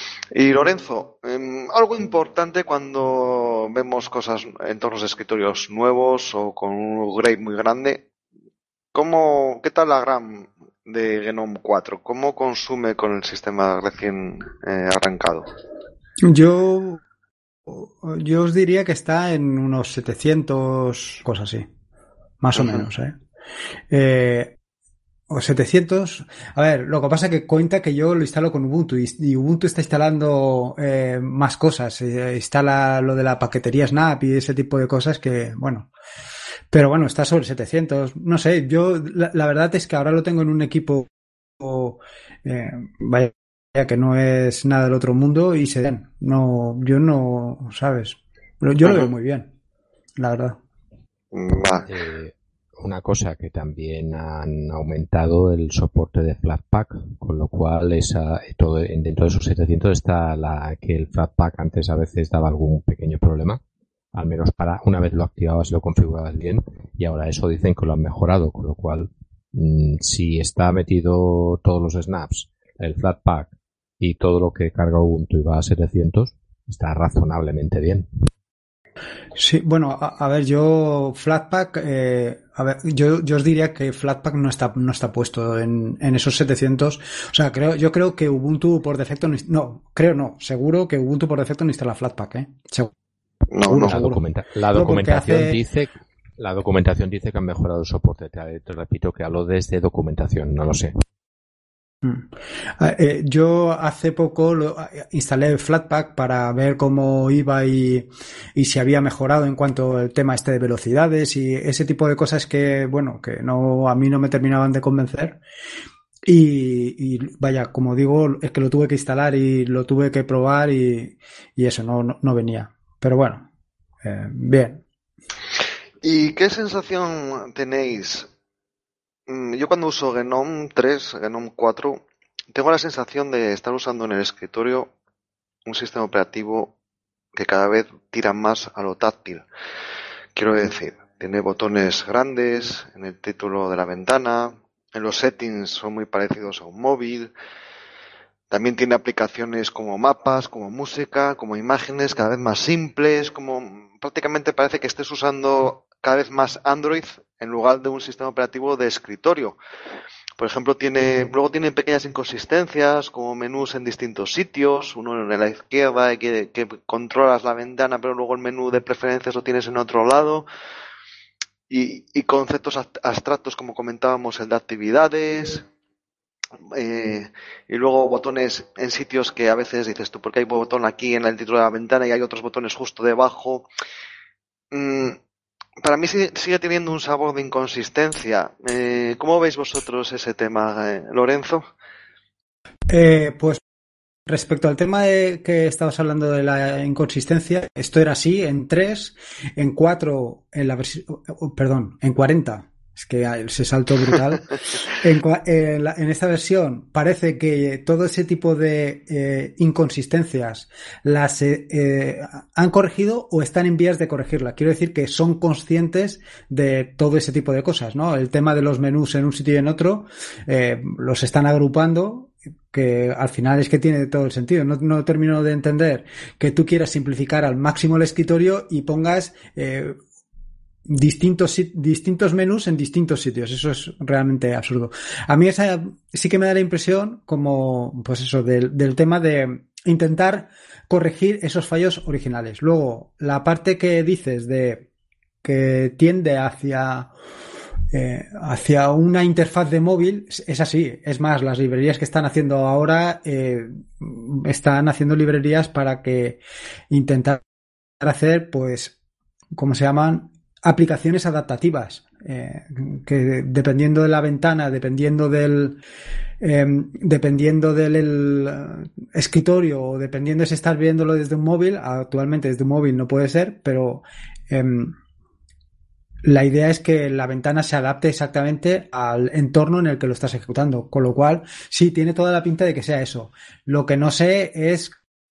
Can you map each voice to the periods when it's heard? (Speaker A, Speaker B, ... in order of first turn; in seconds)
Speaker A: 0.3-8.1, 8.9-15.5, 22.6-22.8, 48.8-49.1, 51.3-51.9, 93.5-94.0, 126.0-128.3, 129.3-134.9, 135.7-136.7, 137.3-139.5, 140.4-147.3, 148.5-159.6, 160.4-170.5, 171.7-175.7, 176.7-183.7, 184.7-185.2, 185.8-191.7
Speaker B: 16.2-17.0, 17.7-21.7, 22.4-23.2, 23.9-24.6, 25.3-35.9, 36.7-41.1, 41.6-49.5, 50.2-50.6, 79.4-92.9, 93.7-94.2, 94.7-95.6, 102.8-115.4, 116.3-123.5, 124.0-124.8, 192.9-193.6, 194.3-230.0, 230.9-244.8, 245.4-247.1, 247.9-257.4, 258.0-259.0, 259.6-265.8, 266.4-274.9, 276.2-285.0
Speaker C: 51.9-63.6, 64.1-78.1, 93.8-100.9